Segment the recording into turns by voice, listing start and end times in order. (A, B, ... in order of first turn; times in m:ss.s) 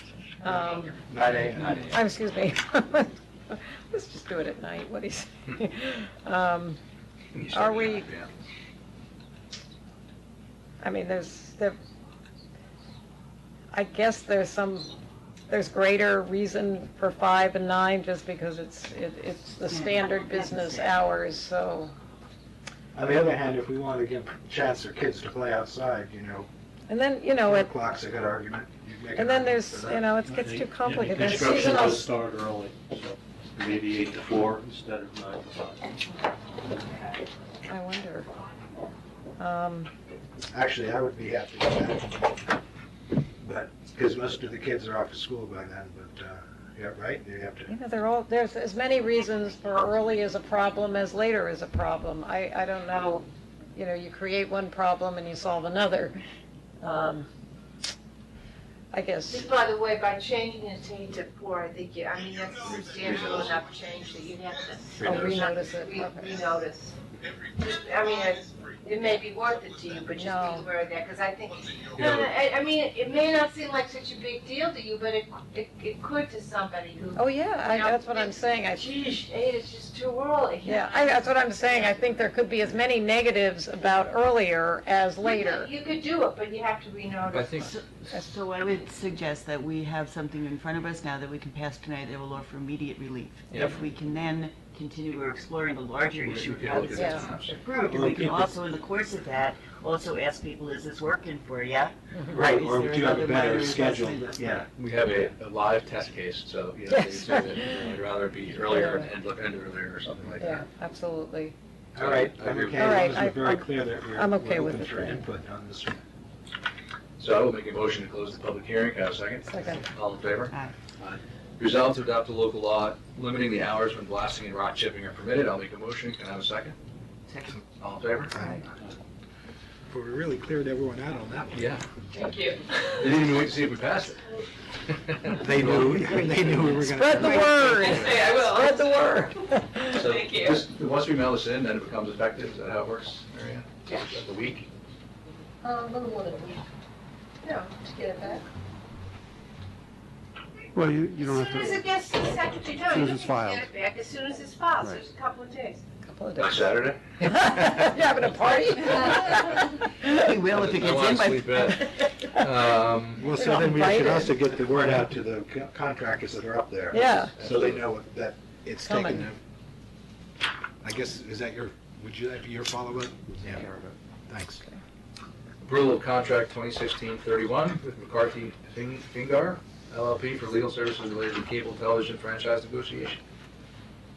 0:00.4-0:01.0 A
0:01.1-0:01.9 B
0:01.7-0:06.8 A
0:07.3-0:08.3 C
0:07.5-0:08.1 A
0:10.8-0:11.8 A
0:13.7-0:14.9 A
0:15.5-0:22.0 A
0:19.7-0:21.0 D
0:22.9-0:26.5 B
0:26.9-0:27.7 A
0:27.4-0:30.1 B
0:29.2-0:32.1 A
0:30.3-0:35.9 E
0:37.7-0:38.3 A
0:39.4-0:39.9 A
0:40.5-0:42.5 B
0:43.4-0:47.7 B
0:47.7-0:56.2 A
0:56.8-0:57.3 A
0:58.9-0:59.5 A
0:59.3-1:21.3 F
1:02.6-1:03.6 C
1:05.0-1:05.4 C
1:05.0-1:06.3 A
1:10.2-1:10.7 A
1:11.9-1:12.3 C
1:17.2-1:18.9 A
1:20.6-1:25.7 A
1:25.2-1:27.7 F
1:27.3-1:27.7 C
1:27.6-1:44.4 D
1:36.2-1:37.5 C
1:37.0-1:37.2 A
1:37.8-1:38.6 B
1:42.3-1:45.2 B
1:44.8-1:50.6 C
1:46.9-1:47.9 A
1:48.6-1:49.1 A
1:50.4-1:51.5 A
1:52.0-1:56.0 B
1:52.0-1:53.2 C
1:52.8-1:55.2 A
1:57.2-2:06.8 C
1:59.5-1:59.8 A
2:07.3-2:07.6 D
2:07.8-2:08.4 C
2:09.9-2:11.7 B
2:11.5-2:11.8 C
2:12.2-2:12.5 F
2:12.9-2:14.2 C
2:14.9-2:16.0 C
2:15.3-2:18.3 B
2:16.8-2:20.2 A
2:17.4-2:17.8 D
2:19.9-2:24.7 C
2:25.6-2:26.6 F
2:27.4-2:28.4 F
2:30.7-2:31.9 G
2:31.2-2:35.8 F
2:32.9-2:33.7 G
2:36.0-2:36.6 A
2:36.4-2:37.9 C
2:37.2-2:40.3 A
2:40.2-2:41.7 D
2:40.5-2:43.3 C
2:43.2-2:49.4 B
2:43.3-2:44.3 A
2:46.9-2:47.4 A
2:47.4-2:47.8 C
2:50.8-2:53.6 B
2:53.3-2:54.0 G
2:54.3-2:54.6 B
2:55.6-3:03.2 C